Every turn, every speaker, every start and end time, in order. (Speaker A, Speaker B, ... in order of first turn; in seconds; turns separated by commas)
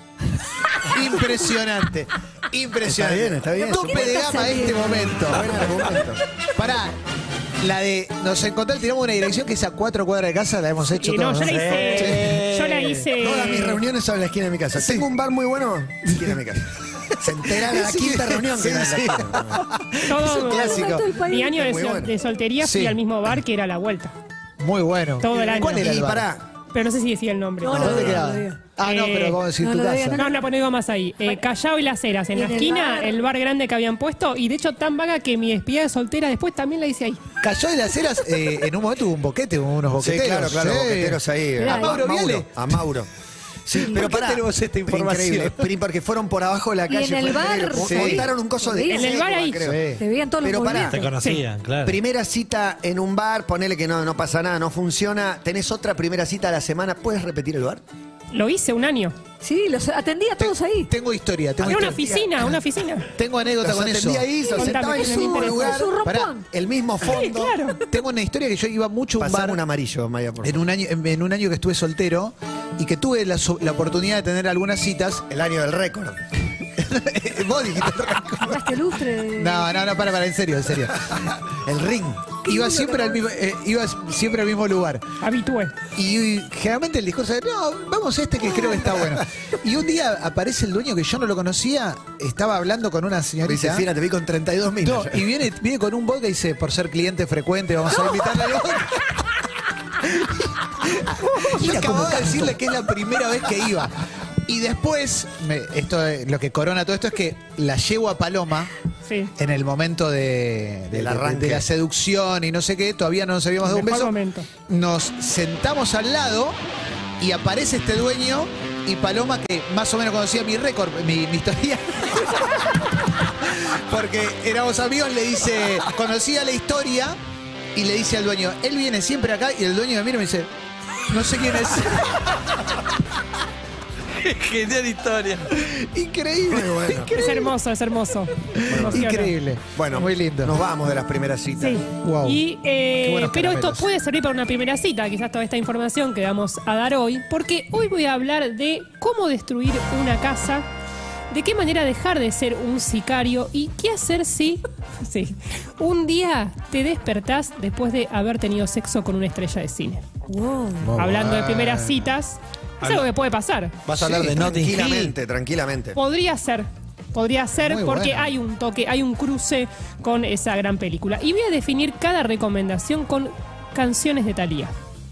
Speaker A: 0.8-7.0, Speaker B: 2.9-4.6, Speaker C: 3.6-5.2, Speaker B: 5.2-6.2, Speaker A: 7.6-12.4, Speaker D: 11.0-13.8, Speaker E: 11.4-13.1, Speaker B: 13.2-22.1, Speaker A: 14.8-15.1, Speaker A: 17.3-21.0, Speaker D: 20.1-24.1, Speaker C: 20.4-21.6, Speaker A: 22.6-23.0, Speaker A: 24.6-26.3, Speaker D: 25.2-25.9, Speaker B: 25.3-26.4, Speaker D: 26.7-28.0, Speaker C: 27.6-28.6, Speaker A: 27.7-30.2, Speaker B: 27.7-28.1, Speaker D: 28.8-29.4, Speaker C: 29.6-30.4, Speaker D: 30.1-37.2, Speaker C: 32.3-33.2, Speaker A: 37.4-42.5, Speaker B: 40.0-43.1, Speaker C: 41.6-42.0, Speaker B: 43.6-51.0, Speaker C: 43.8-44.0, Speaker A: 43.8-45.7, Speaker C: 46.9-49.1, Speaker A: 47.7-48.3, Speaker D: 48.9-49.6, Speaker A: 49.6-50.0, Speaker C: 50.0-51.1, Speaker E: 50.8-52.0, Speaker B: 51.8-57.8, Speaker D: 58.3-59.1, Speaker C: 59.4-60.9, Speaker A: 60.4-62.5, Speaker D: 61.6-63.1, Speaker B: 61.7-62.4, Speaker A: 63.1-64.3, Speaker B: 63.6-67.5, Speaker C: 64.5-66.5, Speaker D: 64.5-65.8, Speaker A: 66.0-66.3, Speaker D: 67.0-67.8, Speaker A: 67.9-69.6, Speaker B: 69.2-70.6, Speaker A: 70.4-75.2, Speaker B: 75.3-76.2, Speaker A: 76.8-78.6, Speaker B: 77.8-78.3, Speaker C: 78.4-79.7, Speaker A: 79.4-81.2, Speaker B: 81.6-82.4, Speaker C: 82.4-83.2, Speaker A: 82.5-85.0, Speaker D: 85.2-85.7, Speaker A: 85.9-93.9, Speaker B: 93.5-95.2, Speaker A: 94.8-99.2, Speaker A: 100.0-108.7, Speaker B: 101.5-102.6, Speaker D: 109.0-109.3, Speaker A: 109.3-114.1, Speaker B: 110.9-111.6, Speaker D: 113.6-114.5, Speaker A: 114.7-116.6, Speaker A: 117.2-127.2, Speaker A: 127.7-130.5, Speaker A: 131.1-132.2, Speaker E: 134.2-135.5, Speaker A: 135.6-137.5, Speaker B: 136.4-137.1, Speaker D: 137.1-139.3, Speaker A: 138.6-140.5, Speaker B: 138.7-139.2, Speaker B: 139.7-141.8, Speaker D: 141.6-150.7, Speaker A: 142.0-142.4, Speaker A: 143.0-143.9, Speaker D: 151.3-160.0, Speaker C: 160.3-160.9, Speaker A: 160.8-162.1, Speaker D: 161.0-163.7, Speaker E: 162.8-163.1, Speaker E: 163.8-165.1, Speaker B: 164.0-166.0, Speaker D: 165.9-174.7, Speaker A: 167.6-168.3